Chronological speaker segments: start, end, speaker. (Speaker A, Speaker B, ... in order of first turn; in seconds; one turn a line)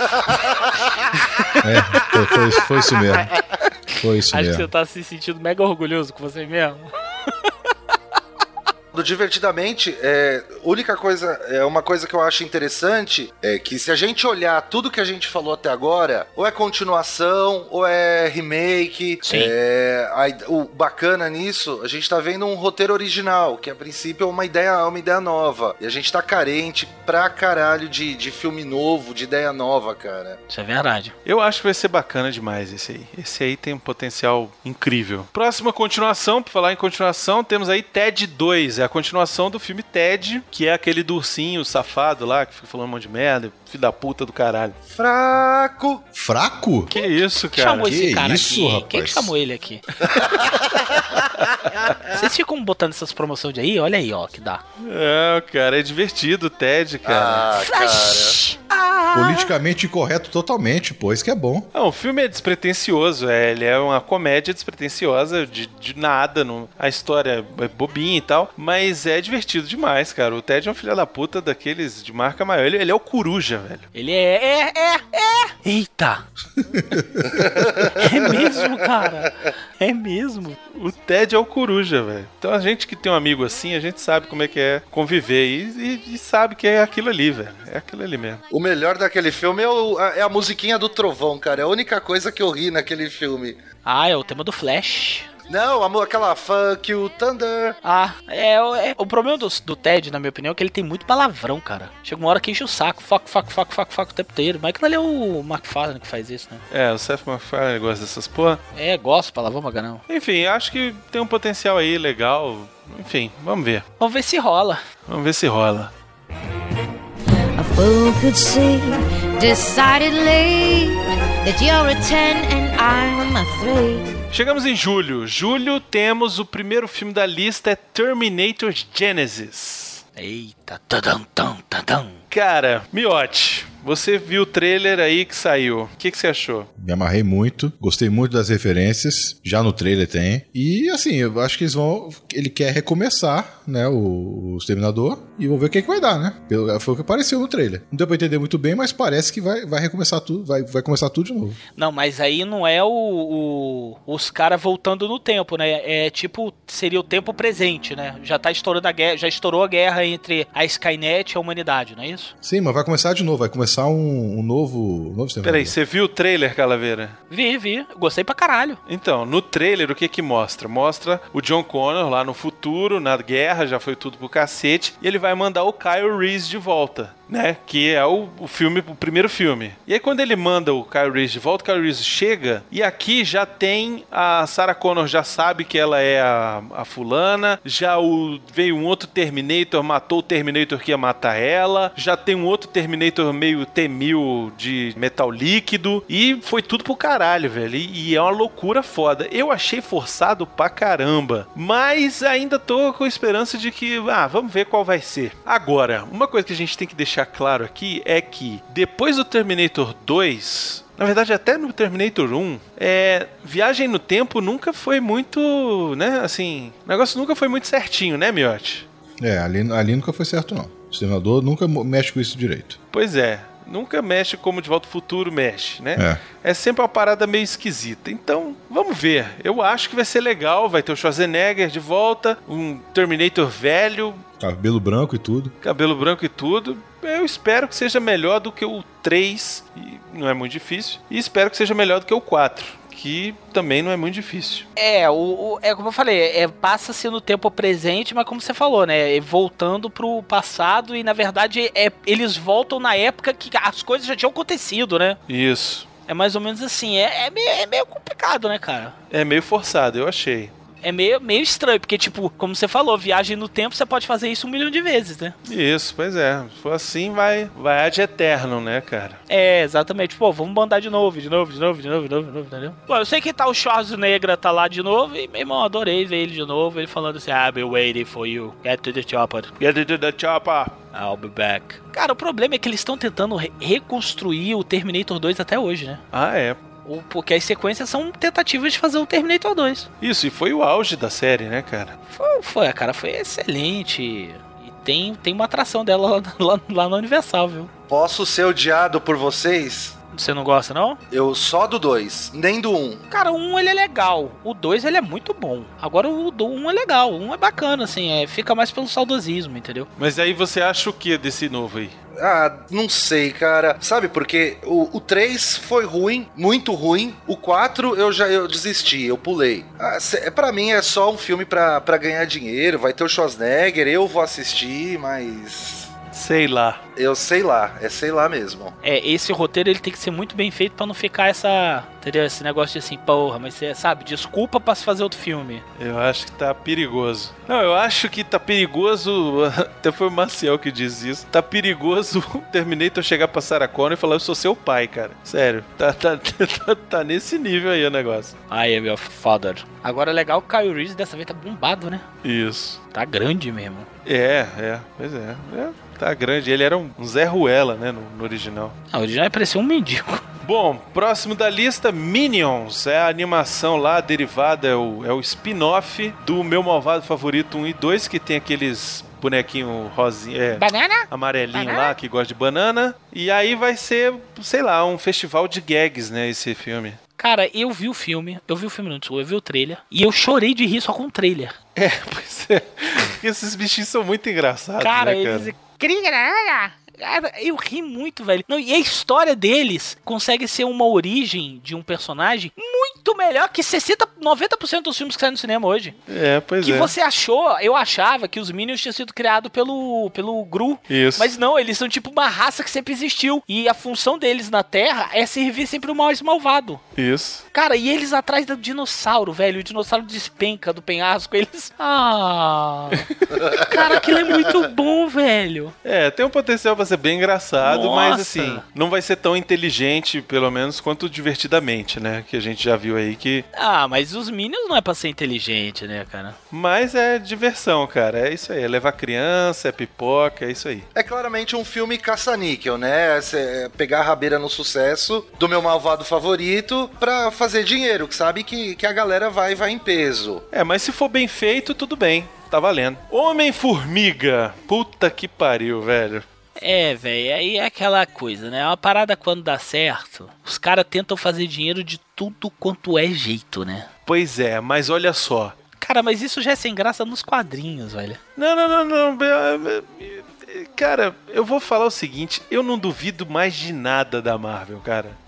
Speaker A: 1.2-3.1
Speaker B: 1.6-3.4
Speaker B: 3.9-4.7
Speaker A: 4.3-7.5
Speaker C: 8.9-30.4
Speaker A: 19.2-19.5
Speaker A: 30.5-31.1
Speaker D: 31.2-44.8
Speaker C: 44.9-46.1
Speaker B: 46.1-46.9
Speaker D: 46.9-47.9
Speaker A: 46.9-49.8
Speaker B: 47.8-49.3
Speaker C: 50.1-51.0
Speaker A: 52.1-54.6
Speaker D: 54.8-57.5
Speaker C: 57.0-58.4
Speaker A: 57.6-59.5
Speaker B: 59.1-61.7
Speaker D: 61.7-73.9
Speaker A: 73.9-76.2
Speaker B: 76.7-77.8
Speaker A: 77.9-80.6
Speaker D: 80.7-88.4
Speaker C: 88.5-93.6
Speaker A: 93.8-95.3
Speaker C: 95.5-97.8
Speaker A: 97.8-106.6
Speaker D: 106.7-108.6
Speaker A: 108.7-110.0
Speaker D: 110.1-113.8
Speaker A: 114.0-114.8
Speaker D: 115.1-115.9
Speaker E: 117.6-124.1
Speaker D: 124.3-130.0
Speaker A: 130.2-132.2
Speaker D: 132.3-136.7
Speaker B: 136.8-151.6
Speaker A: 151.8-162.3
Speaker B: 162.4-165.8
Speaker D: 165.4-167.2
Speaker A: 167.3-168.8
Speaker D: 168.9-218.8
Speaker B: 219.2-222.8
Speaker D: 222.9-234.2
Speaker B: 226.0-226.2
Speaker B: 234.4-235.5
Speaker D: 235.6-244.7
Speaker A: 244.8-255.2
Speaker D: 255.3-255.9
Speaker A: 256.1-258.9
Speaker D: 259.1-260.5
Speaker A: 260.8-265.4
Speaker D: 265.4-269.2
Speaker A: 269.3-279.5
Speaker D: 279.6-280.8
Speaker A: 280.9-286.0
Speaker D: 286.1-286.6
Speaker A: 286.9-289.9
Speaker D: 290.0-292.0
Speaker A: 292.1-297.7
Speaker C: 297.9-300.0
Speaker A: 300.1-301.0
Speaker C: 301.1-303.0
Speaker A: 303.1-309.9
Speaker D: 310.0-311.9
Speaker C: 312.2-325.9
Speaker D: 326.1-326.8
Speaker C: 327.0-328.8
Speaker A: 328.8-335.6
Speaker D: 335.8-348.4
Speaker A: 348.5-352.1
Speaker D: 352.2-352.8
Speaker A: 352.9-353.9
Speaker D: 354.1-358.8
Speaker A: 358.9-360.2
Speaker D: 360.4-377.0
Speaker A: 370.6-371.9
Speaker A: 377.2-381.6
Speaker D: 381.8-385.5
Speaker A: 384.8-396.0
Speaker D: 396.1-396.9
Speaker A: 396.6-406.8
Speaker D: 400.9-401.3
Speaker D: 407.0-407.4
Speaker A: 407.5-415.8
Speaker D: 413.0-413.4
Speaker D: 415.8-423.5
Speaker A: 417.6-418.6
Speaker A: 423.5-426.4
Speaker D: 426.5-430.9
Speaker C: 430.9-440.4
Speaker D: 440.5-446.3
Speaker A: 446.6-453.9
Speaker D: 454.1-455.6
Speaker A: 455.8-458.2
Speaker D: 458.4-465.2